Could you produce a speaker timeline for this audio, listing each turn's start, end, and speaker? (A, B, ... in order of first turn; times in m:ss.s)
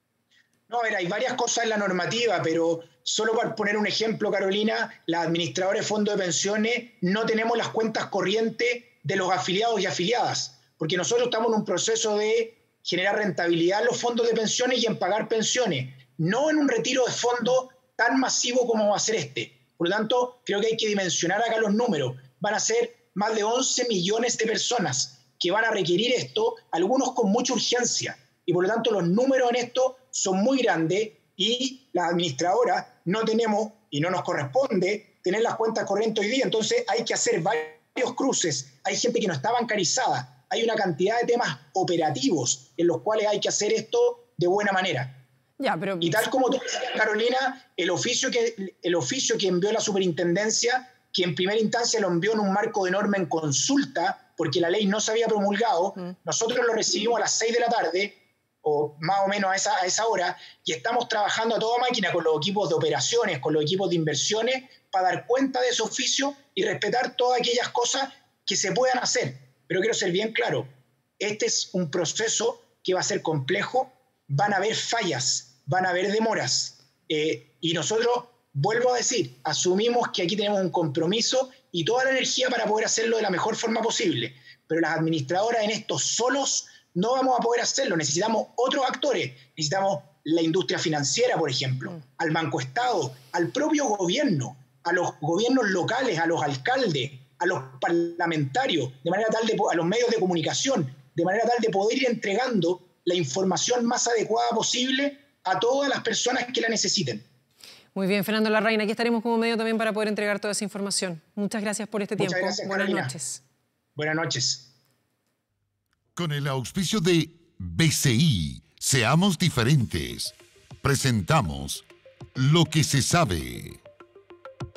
0:00.7-0:45.2 A
0:45.6-0:46.2 B
0:46.0-1:10.7 A
1:11.2-1:47.2 A
1:47.9-1:53.4 B
1:52.2-1:53.1 A
1:54.0-1:54.6 A
1:56.2-2:00.3 C
2:00.8-2:01.8 C
2:02.4-2:03.8 C